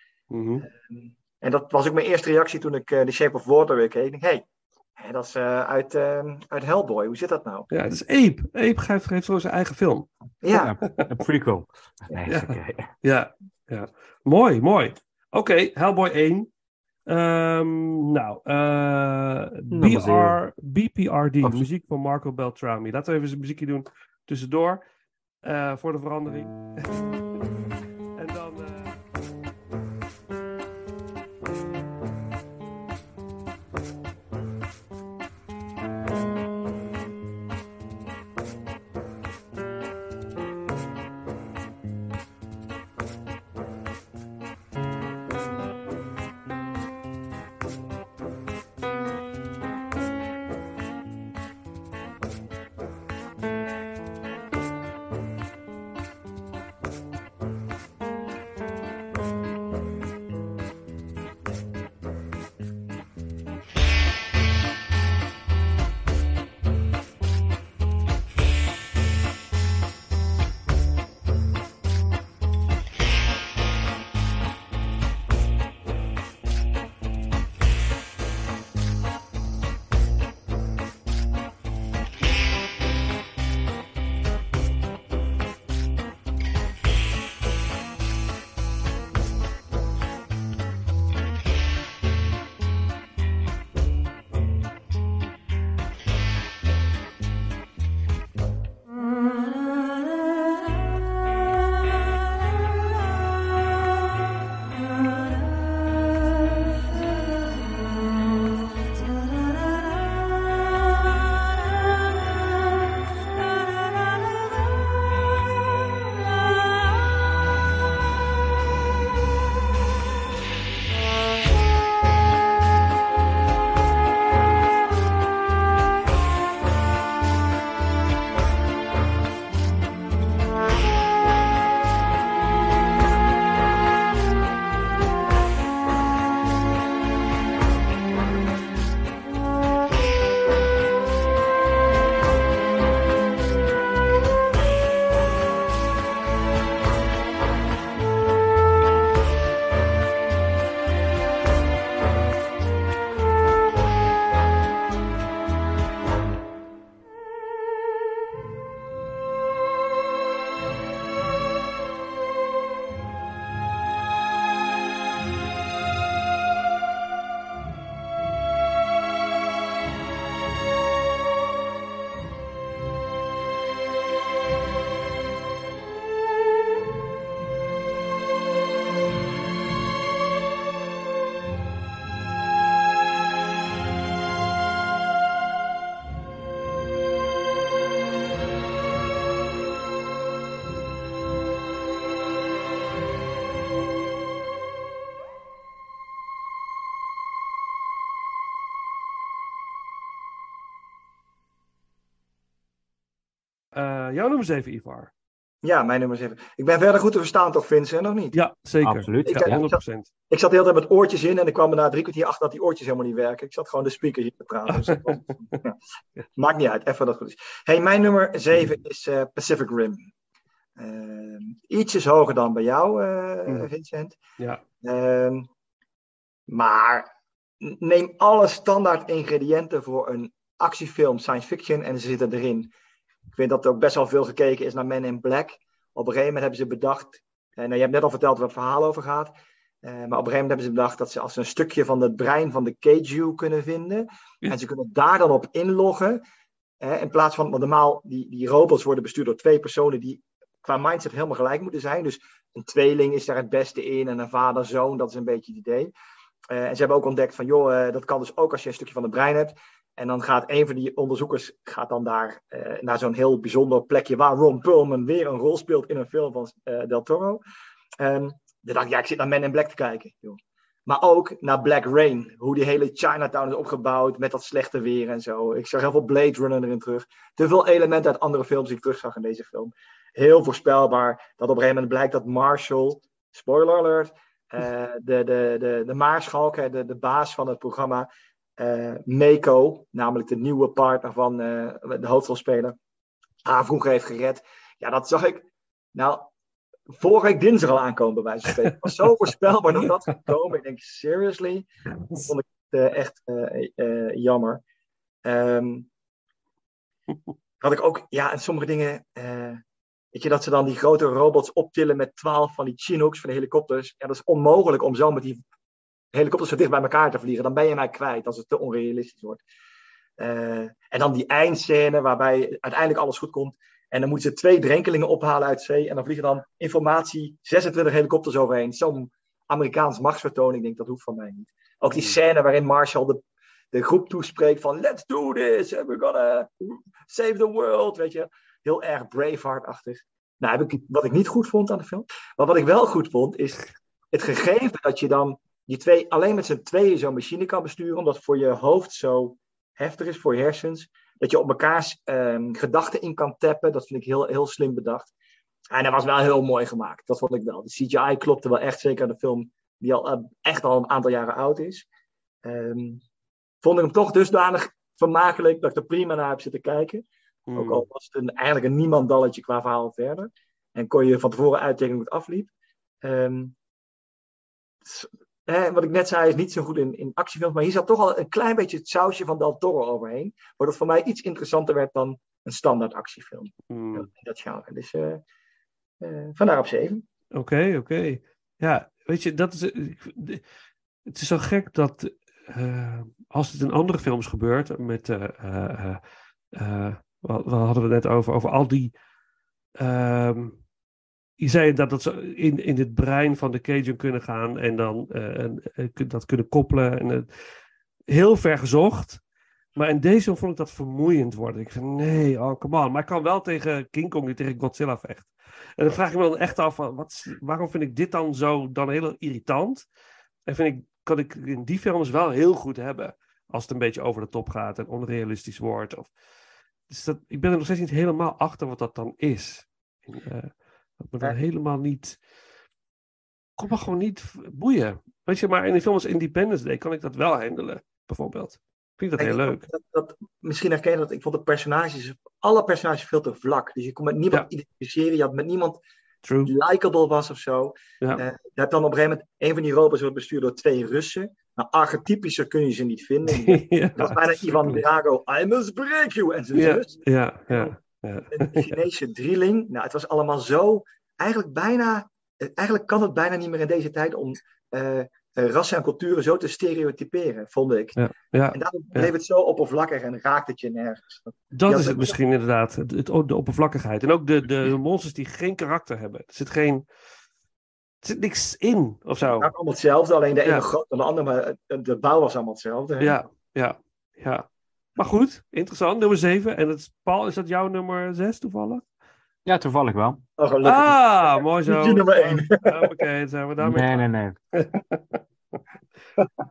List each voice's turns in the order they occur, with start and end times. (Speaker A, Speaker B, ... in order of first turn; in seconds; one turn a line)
Speaker A: 0.3-0.7
Speaker B: 0.6-4.4
Speaker B: 5.0-7.7
Speaker A: 7.7-10.1
Speaker B: 10.4-10.7
Speaker C: 10.5-12.9
Speaker A: 12.2-16.5
Speaker A: 17.1-24.8
Speaker C: 19.7-20.4
Speaker C: 21.4-21.7
Speaker A: 25.4-27.2
Speaker A: 28.1-29.0
Speaker A: 203.7-205.1
Speaker B: 205.6-208.4
Speaker A: 208.3-210.1
Speaker C: 208.8-209.7
Speaker B: 209.2-215.8
Speaker B: 216.3-220.1
Speaker B: 220.8-224.2
Speaker B: 224.8-225.5
Speaker B: 226.5-227.1
Speaker B: 227.6-232.7
Speaker B: 233.3-246.2
Speaker B: 246.8-255.9
Speaker B: 256.5-267.4
Speaker B: 268.0-292.8
Speaker B: 293.4-296.3
Speaker B: 297.0-301.6
Speaker A: 302.0-302.3
Speaker B: 302.2-304.6
Speaker B: 305.2-305.9
Speaker B: 307.6-309.6
Speaker B: 310.1-315.4
Speaker B: 316.1-319.4
Speaker B: 320.2-333.2
Speaker A: 331.9-332.2
Speaker B: 333.7-355.1
Speaker B: 355.7-361.9
Speaker B: 362.4-363.0
Speaker B: 363.6-367.0
Speaker A: 367.5-367.8
Speaker B: 367.6-372.5
Speaker B: 373.0-373.5
Speaker B: 374.8-385.2
Speaker A: 383.7-384.1
Speaker B: 386.0-387.0
Speaker A: 387.3-390.4
Speaker A: 391.1-396.0
Speaker A: 396.5-398.9
Speaker A: 399.8-400.6
Speaker A: 401.4-407.3
Speaker A: 408.1-409.2
Speaker A: 409.7-419.9
Speaker A: 420.5-426.1
Speaker A: 426.9-432.2
Speaker A: 433.6-439.6
Speaker B: 439.2-445.8
Speaker A: 446.2-446.5
Speaker B: 446.4-457.8
Speaker A: 453.3-454.8
Speaker A: 456.5-458.7
Speaker B: 458.3-468.0
Speaker A: 468.0-469.1
Speaker B: 468.5-472.2
Speaker A: 471.5-476.8
Speaker A: 478.0-479.5
Speaker B: 479.3-483.1
Speaker A: 483.0-488.9
Speaker C: 489.4-490.2
Speaker B: 490.4-493.0
Speaker A: 490.6-495.2
Speaker C: 493.6-494.4